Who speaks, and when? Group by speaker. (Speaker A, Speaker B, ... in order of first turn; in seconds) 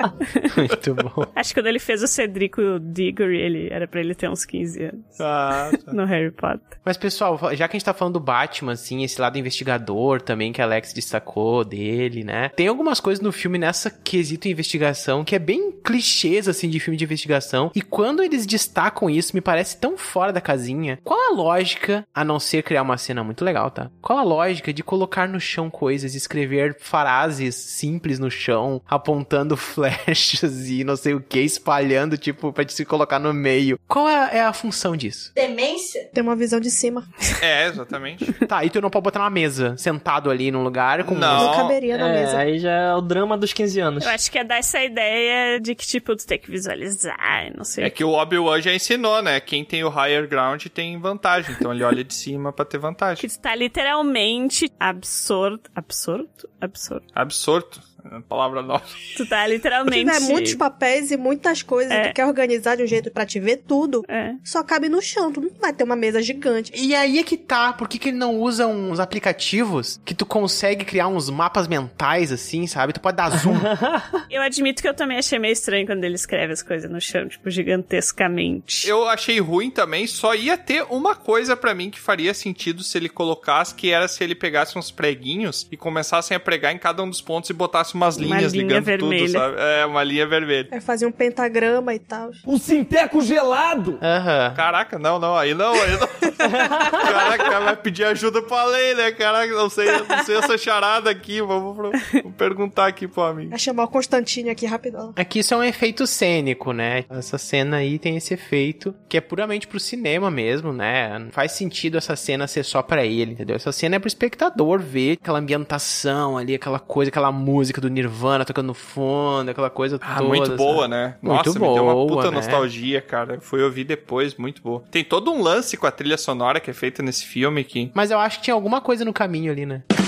Speaker A: 0.5-1.3, 6.8-35.3, 38.5-41.5, 66.7-73.7, 94.0-94.6, 105.2-122.7, 127.9-129.8
Speaker B: 1.3-5.2, 5.8-6.7, 44.0-47.9, 53.2-57.0, 59.1-60.6, 61.9-62.1, 64.1-64.4, 74.3-78.9, 88.2-89.4
Speaker C: 5.2-6.0, 37.4-38.3, 41.0-41.8, 47.8-53.2, 57.1-58.9, 78.8-90.7, 94.5-103.5, 120.0-127.9
Speaker D: 36.1-37.3, 41.3-42.4, 59.9-66.7, 90.7-92.4, 103.5-105.1
Speaker E: 41.9-44.1, 73.4-74.0